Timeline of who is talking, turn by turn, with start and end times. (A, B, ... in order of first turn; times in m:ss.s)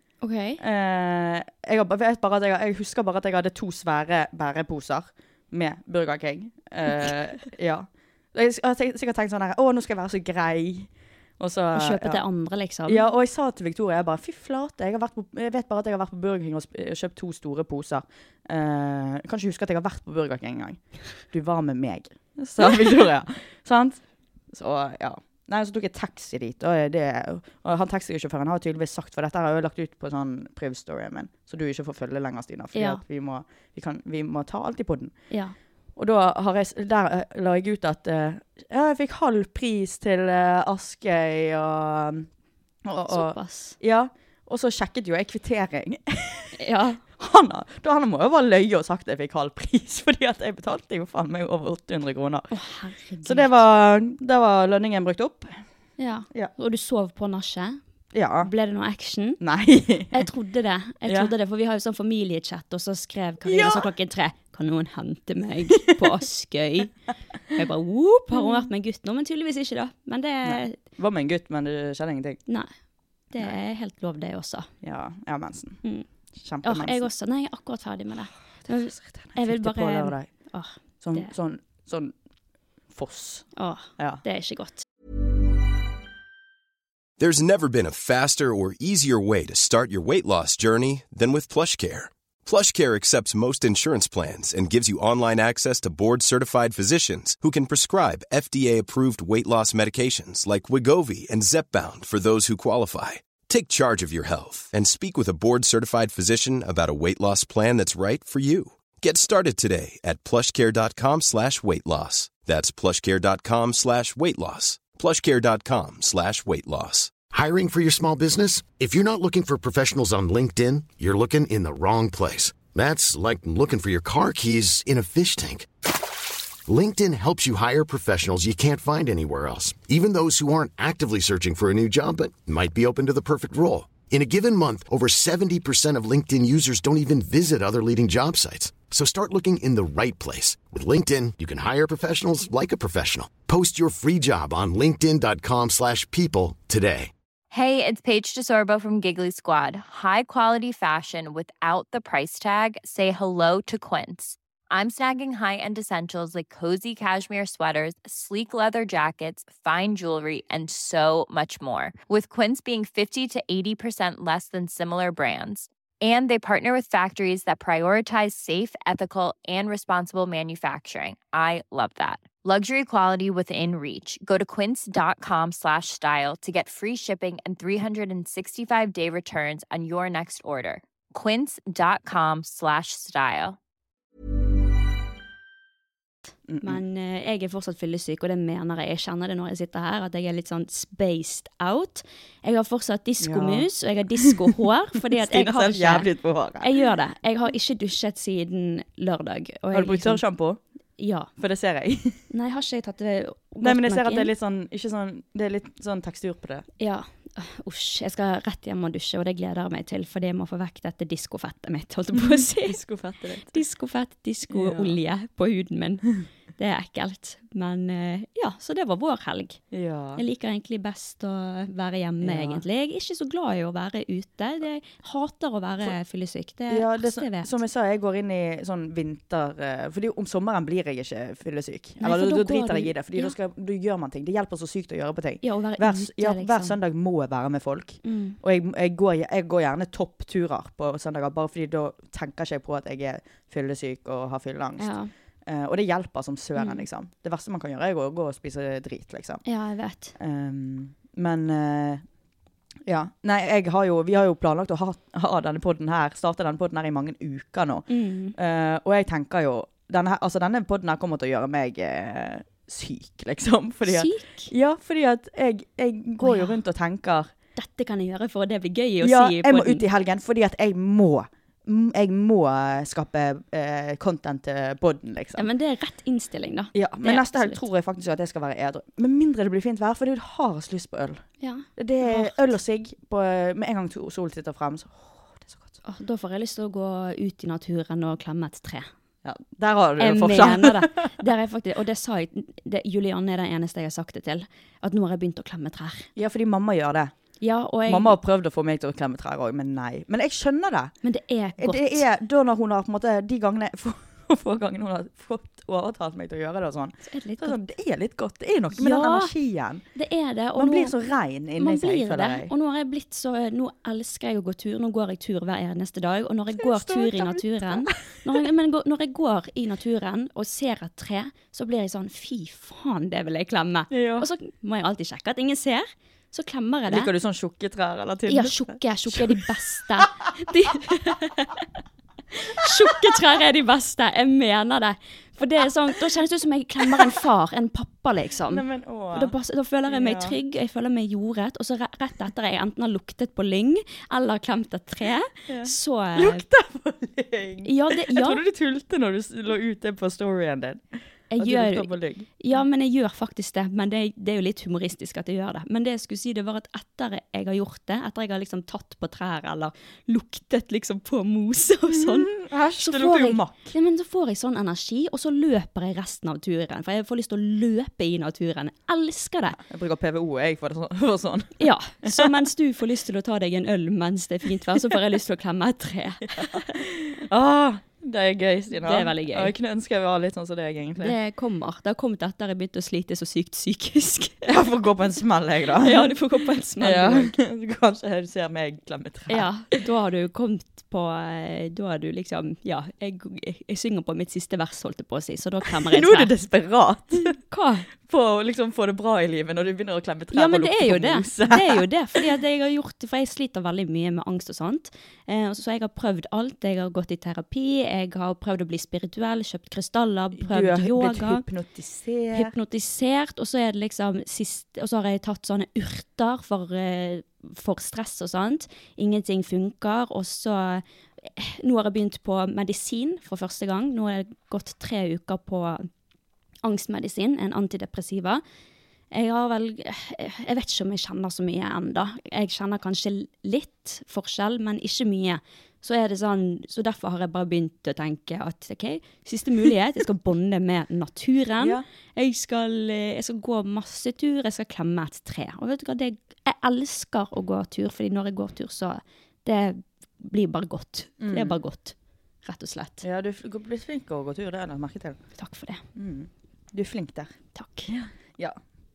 0:00.2-0:00.6 A
0:00.6-0:12.2 B
0:11.7-0:13.0 A
0:12.9-0:35.1 B
0:32.7-0:33.0 A
0:35.3-0:35.5 A
0:36.0-0:42.3 B
0:42.8-0:46.6 B
0:43.1-0:43.8 A
0:46.6-0:47.0 A
0:47.2-0:52.5 B
0:52.5-0:53.5 A
0:53.2-0:55.5 B
0:56.0-0:57.8 A
0:58.1-0:58.5 B
0:58.4-0:59.4 A
0:59.4-1:00.2 B
1:00.1-1:06.9 A
1:03.4-1:03.9 B
1:07.5-1:10.8 A
1:08.3-1:08.6 B
1:10.4-1:12.4 B
1:13.3-1:14.7 A
1:14.8-1:15.8 B
1:16.4-1:17.1 B
1:16.6-1:21.3 A
1:18.7-1:20.3 B
1:21.0-1:22.1 B
1:22.9-1:24.2 B
1:23.6-1:24.8 A
1:27.2-1:57.1 C
1:57.3-2:05.7 D
2:06.6-2:27.1 D
2:27.5-3:03.6 E
3:06.5-3:06.8 B
3:06.6-3:16.1 A
3:13.2-3:13.7 B
3:15.1-3:16.8 B
3:16.6-3:20.2 A
3:19.7-3:20.6 B
3:21.0-3:21.3 A
3:21.4-3:22.2 B
3:22.3-3:24.3 A
3:23.6-3:26.6 B
3:26.8-3:32.8 A
3:32.2-3:33.6 B
3:33.5-3:39.6 A
3:34.5-3:35.0 B
3:39.7-3:40.2 B
3:40.2-3:47.5 A
3:42.2-3:42.6 B
3:46.7-4:04.9 B
3:52.0-3:53.3 A
3:55.4-3:56.8 A
3:58.0-3:58.4 A
4:04.8-4:05.1 A
4:05.4-4:09.4 B
4:06.6-4:06.8 A
4:09.4-4:10.1 A
4:10.2-4:12.0 B
4:12.8-4:27.3 B
4:17.9-4:18.4 A
4:23.8-4:24.5 A
4:26.2-4:26.6 A
4:27.6-4:29.8 A
4:29.0-4:35.4 B
4:35.4-4:37.6 A
4:36.7-4:41.2 B
4:41.4-4:42.4 A
4:41.8-4:45.8 B
4:45.8-4:48.9 A
4:49.2-4:51.1 B
4:50.0-4:56.1 A
4:56.2-4:57.1 B
4:57.4-4:58.2 A
4:57.8-5:00.9 B
5:01.0-5:02.0 A
5:01.6-5:09.8 B
5:07.0-5:07.6 A
5:08.7-5:09.3 A
5:09.9-5:10.9 A
5:10.6-5:12.5 B
5:11.6-5:27.1 A
5:16.5-5:18.1 B
5:23.9-5:24.3 B
5:26.9-5:29.4 B
5:28.3-5:31.6 A
5:32.4-5:46.4 A
5:38.5-5:39.3 B
5:39.9-5:40.4 B
5:45.5-5:52.3 B
5:47.6-5:48.4 A
5:51.3-6:09.6 A
6:02.0-6:03.7 B
6:09.7-6:12.3 B
6:11.6-6:16.6 A
6:16.2-6:21.2 B
6:18.8-6:19.5 A
6:21.0-6:24.4 A
6:24.4-6:26.1 B
6:25.8-6:27.3 A
6:26.8-6:29.5 B
6:29.3-6:36.3 A
6:35.7-6:37.4 B
6:37.4-6:37.9 A
6:38.0-6:41.8 B
6:40.3-6:51.4 A
6:50.4-6:52.5 B
6:52.3-7:05.9 A
7:06.6-7:08.4 A
7:09.1-7:33.0 A
7:31.2-7:31.6 B
7:33.0-7:35.2 B
7:35.4-7:35.8 A
7:35.9-7:37.3 B
7:37.5-7:37.9 A
7:37.9-7:38.6 B